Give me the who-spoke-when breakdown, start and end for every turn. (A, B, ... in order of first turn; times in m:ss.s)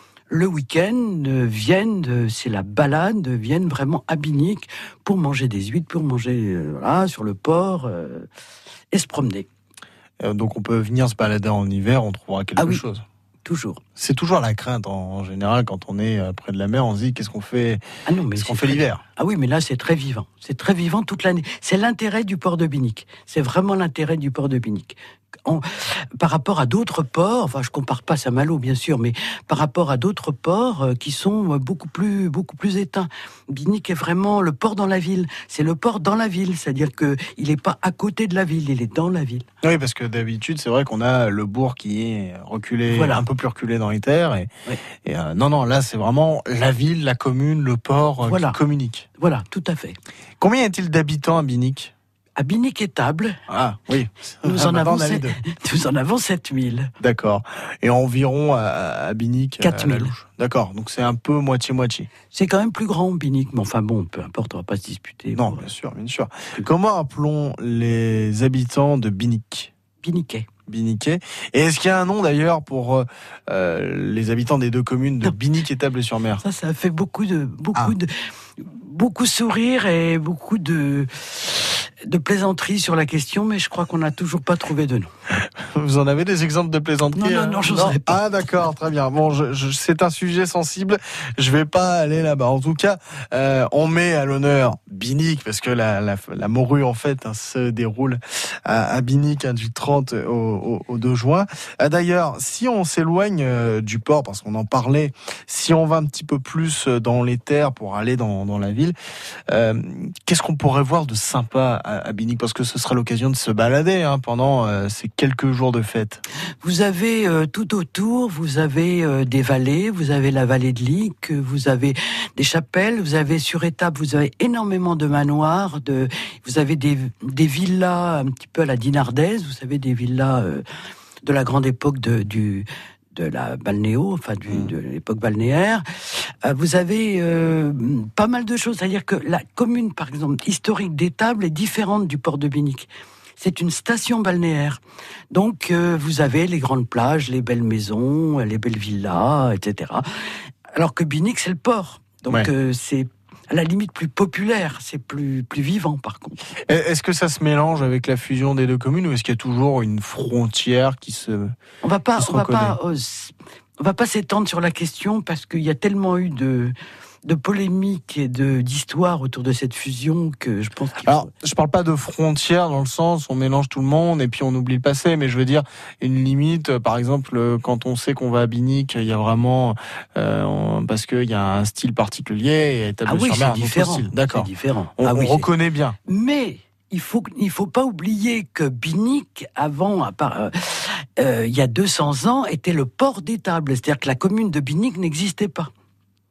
0:00.3-0:08.3 A
0:08.9-0:09.5 A
0:10.2-0:13.0 B
0:12.6-0:12.8 A
0:13.4-0:13.8 A
0:14.0-0:17.8 B
0:18.0-0:39.4 A
0:18.4-0:19.0 B
0:39.6-0:49.1 B
0:42.9-0:43.2 A
0:48.2-0:48.6 A
0:49.2-0:50.0 A
0:50.4-0:51.9 B
0:52.4-0:53.4 A
0:53.5-0:55.4 B
0:54.4-0:56.9 A
0:57.0-1:02.1 B
0:59.6-1:00.1 A
1:02.3-1:05.6 A
1:05.3-1:09.7 B
1:10.0-1:10.5 A
1:10.7-1:16.4 B
1:16.4-1:25.1 A
1:25.4-1:49.0 B
1:27.1-1:28.2 A
1:49.5-1:56.2 B
1:56.6-2:10.6 A
2:11.2-2:15.8 A
2:16.4-2:22.9 A
2:23.4-2:30.0 A
2:30.7-2:36.4 A
2:36.7-2:41.6 B
2:41.8-2:46.7 A
2:42.2-2:42.8 B
2:47.2-2:51.3 A
2:51.0-3:06.0 B
3:03.0-3:05.5 A
3:06.0-3:15.7 A